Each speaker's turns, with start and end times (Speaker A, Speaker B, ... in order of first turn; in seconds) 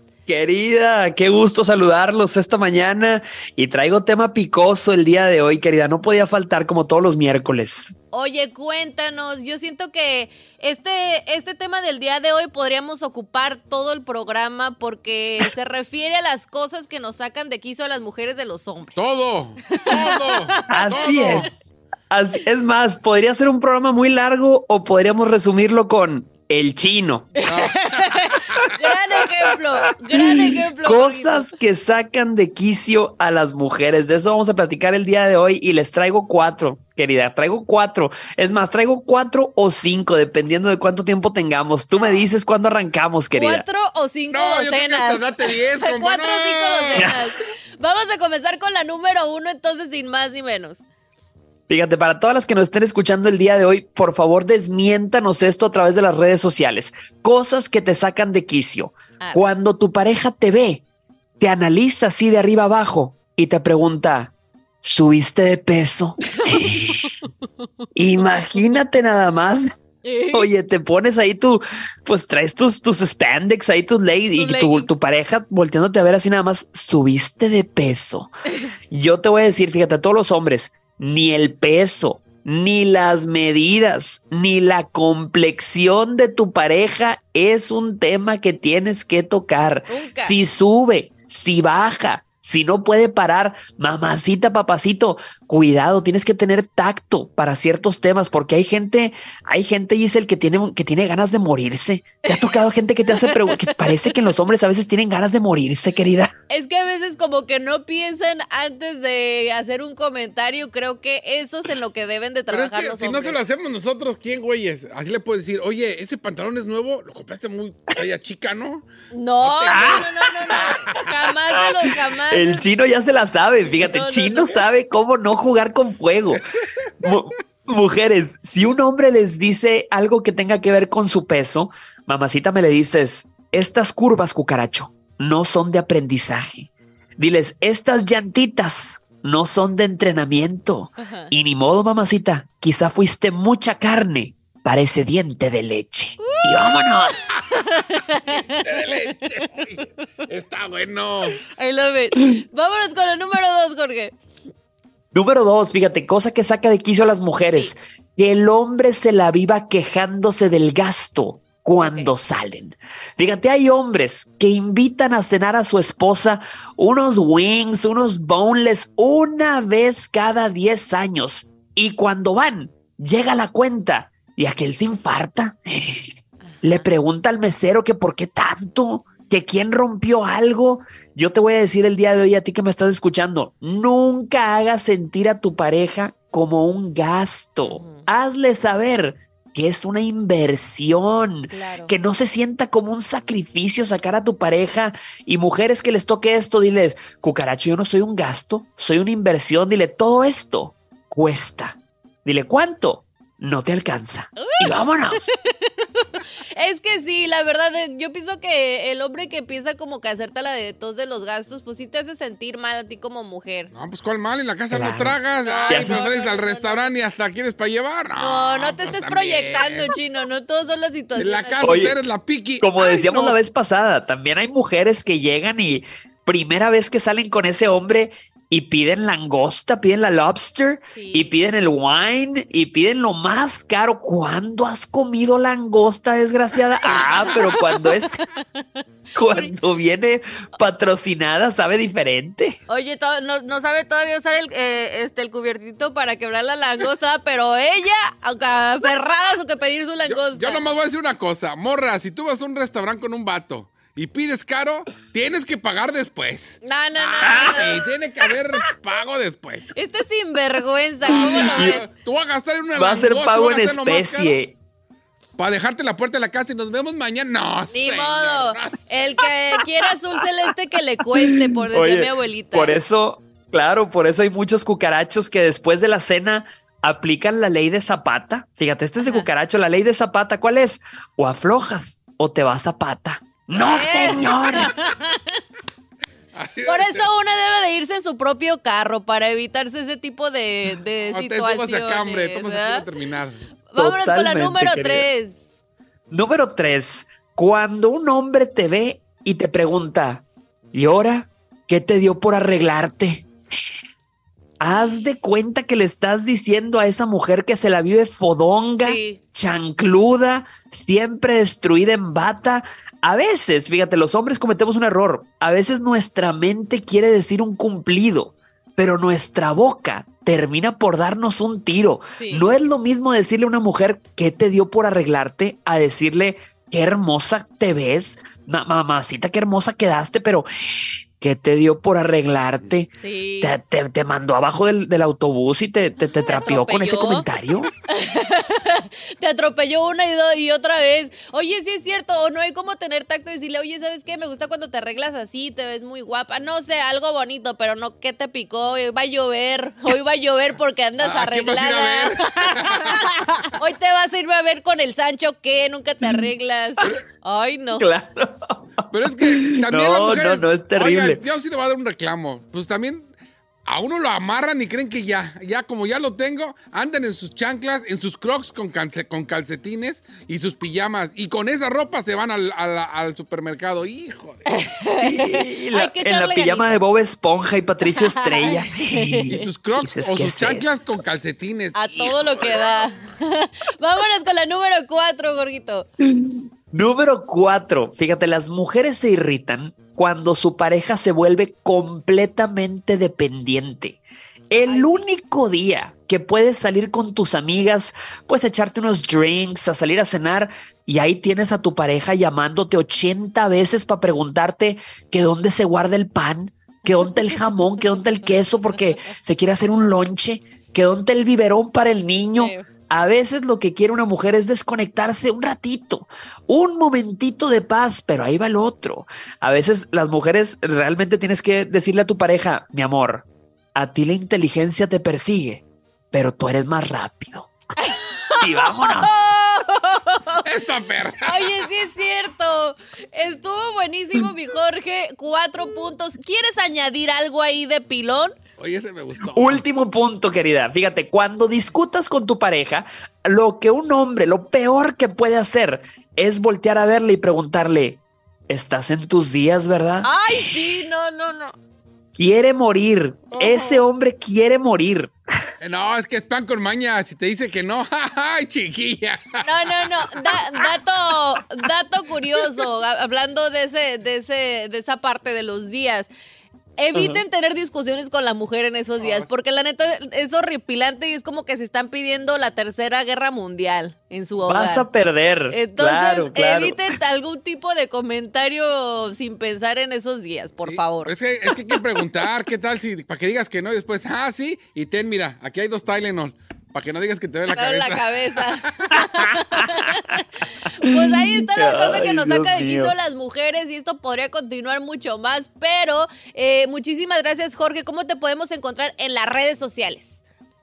Speaker A: 0.3-7.9, 20.7-27.3, 30.1-43.6, 51.7-60.8, 61.4-67.1, 68.0-69.8, 70.3-78.3, 78.9-106.3, 119.7-120.2, 121.9-126.4, 127.0-147.3, 155.1-205.3, 214.7-215.2, 215.7-216.0, 221.6-222.0, 222.6-238.3, 239.2-242.6, 261.3-261.8, 262.8-264.6, 271.1-284.7, 293.8-295.1, 296.1-303.3, 304.6-330.5, 331.2-337.7, 357.8-358.5, 359.3-361.2, 375.0-380.8, 386.1-427.5, 428.4-429.2, 439.3-450.8, 452.2-455.1, 466.9-467.2, 474.4-476.9, 490.9-492.9
Speaker B: 8.1-19.0, 19.7-21.5, 27.4-31.5, 42.0-42.3, 43.4-50.8, 70.0-70.5, 74.3-74.9, 89.9-90.4, 102.2-102.6, 103.1-104.1, 106.5-113.4, 119.1-122.7, 123.7-124.7, 141.0-141.3, 146.2-148.7, 151.3-154.1, 161.8-162.1, 187.6-188.1, 191.5-191.9, 204.4-205.4, 206.6-213.7, 215.3-216.9, 218.2-221.7, 230.9-231.3, 236.9-238.4, 242.7-250.7, 256.6-257.9, 259.8-261.9, 267.7-272.8, 279.0-279.3, 283.5-285.2, 286.6-292.9, 293.7-295.4, 304.7-305.1, 308.8-309.2, 322.2-322.5, 333.0-333.6, 336.3-337.3, 337.9-357.8, 374.5-376.7, 378.9-379.5, 381.8-385.9, 394.7-395.0, 412.4-412.7, 427.8-430.5, 431.2-438.4, 450.0-451.6, 453.3-453.9, 459.4-466.1, 466.8-474.9, 475.5-481.1, 487.5-490.2, 490.8-500.2
Speaker C: 18.9-21.5, 27.4-28.7, 44.3-47.3, 112.5-118.9, 119.4-121.6, 148.2-151.4, 213.7-220.0, 221.2-223.4, 250.1-259.7, 261.0-264.4, 265.4-269.2, 286.4-287.1, 291.0-293.4, 351.0-353.3, 358.9-363.1, 363.6-374.5, 379.3-382.9, 430.4-431.7, 438.6-439.7, 455.6-460.6, 469.0-469.3, 480.6-489.1